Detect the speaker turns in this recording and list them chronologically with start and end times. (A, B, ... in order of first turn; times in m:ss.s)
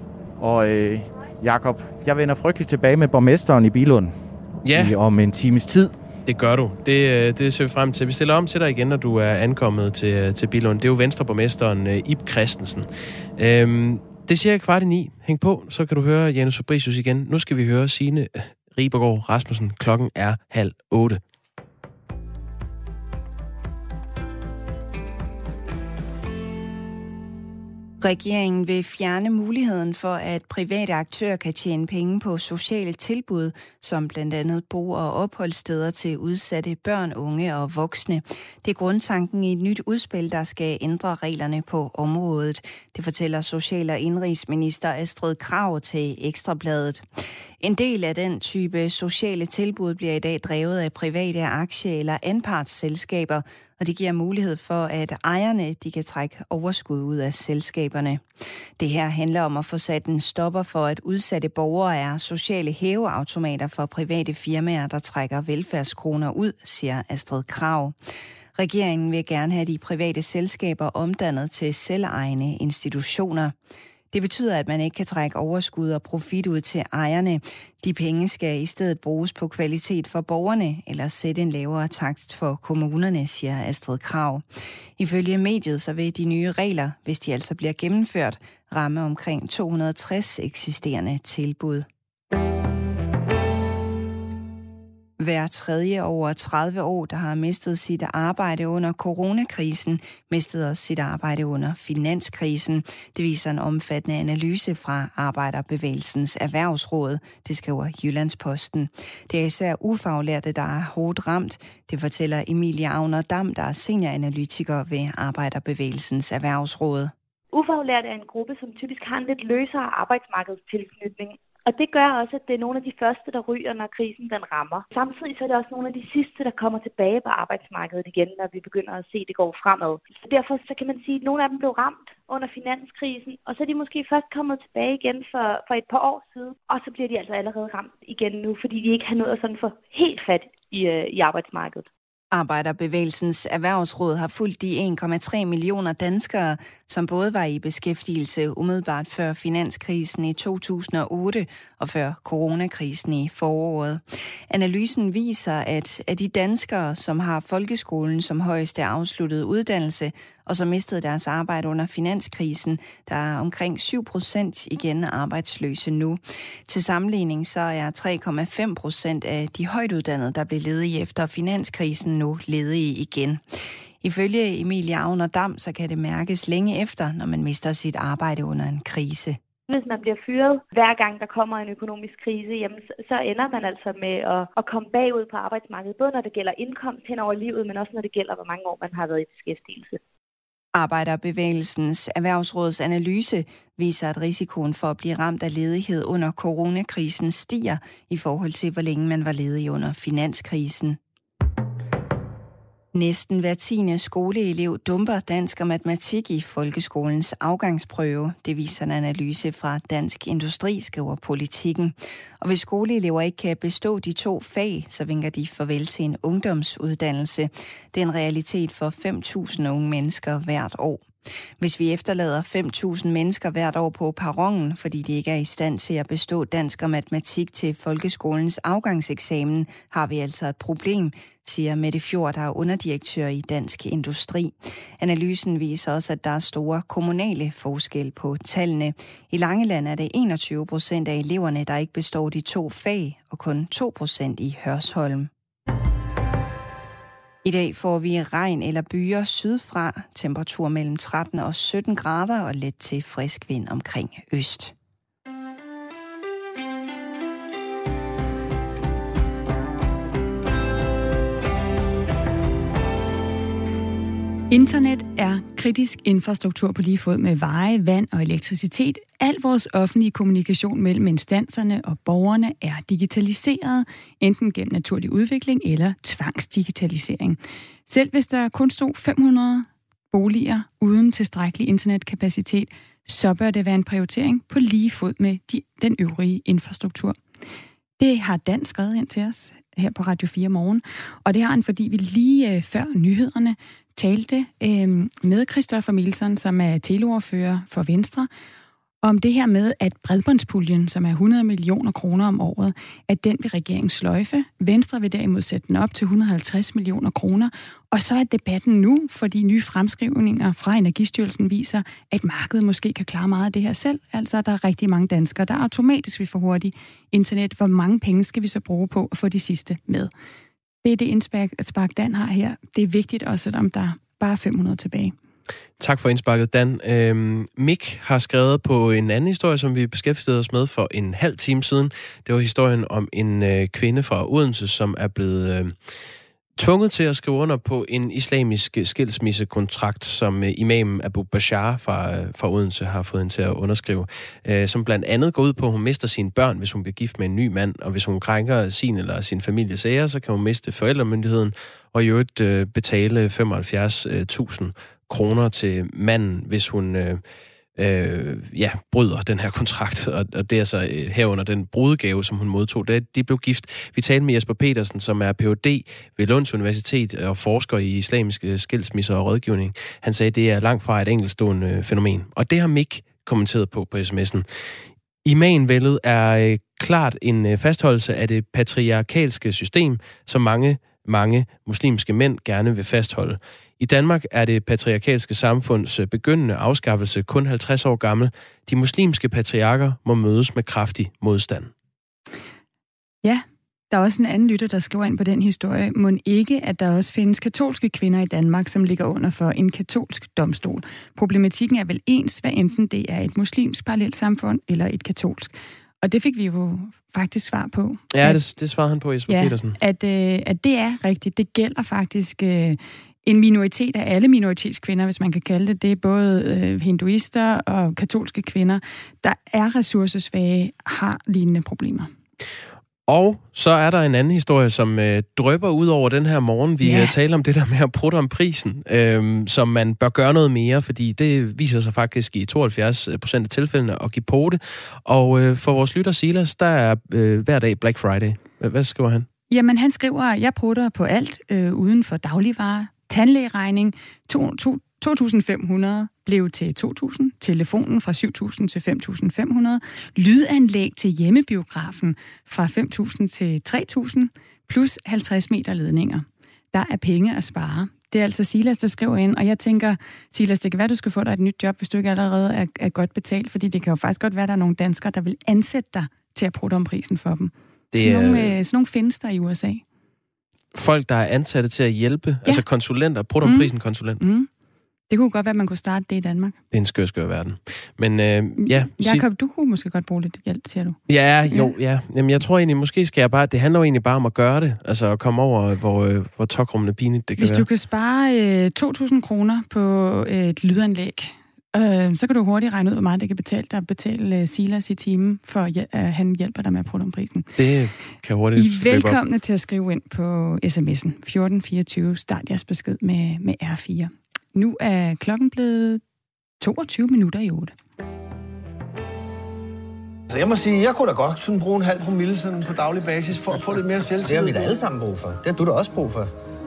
0:00.4-0:06.0 A
0:04.6-0:04.9 B
0:06.2-0:21.2 B
0:28.0-0:47.0 C
0:47.6-0:58.2 C
0:58.8-1:08.0 C
1:08.6-1:13.5 C
1:14.1-1:24.4 C
1:25.0-1:31.8 C
1:35.2-1:57.1 C
1:57.5-2:21.9 D
2:22.3-2:53.4 C
2:54.0-2:59.4 C
2:59.7-3:10.0 D
3:10.7-3:21.0 C
3:22.9-3:41.1 C
3:41.6-4:05.3 C
4:07.4-4:14.7 C
4:24.5-4:47.2 E
4:48.0-4:58.3 E
4:59.0-5:20.1 E
5:20.8-5:25.1 E
5:25.8-5:36.0 B
5:36.6-5:57.2 B
5:57.8-6:31.7 B
6:33.2-6:48.4 E
6:48.1-6:49.8 B
6:49.3-7:02.1 E
7:03.1-7:19.3 B
7:06.8-7:07.1 E
7:19.5-7:49.8 E
7:47.9-7:48.5 B
7:50.7-7:54.2 B
7:53.4-7:54.5 E
7:55.1-7:56.6 E
7:56.7-7:59.2 B
7:58.6-8:01.0 E
8:01.1-8:07.7 B
8:07.4-8:17.5 E
8:17.6-8:19.2 B
8:18.6-8:26.0 E
8:26.6-8:27.7 E
8:30.3-8:34.8 F
8:34.2-8:36.3 G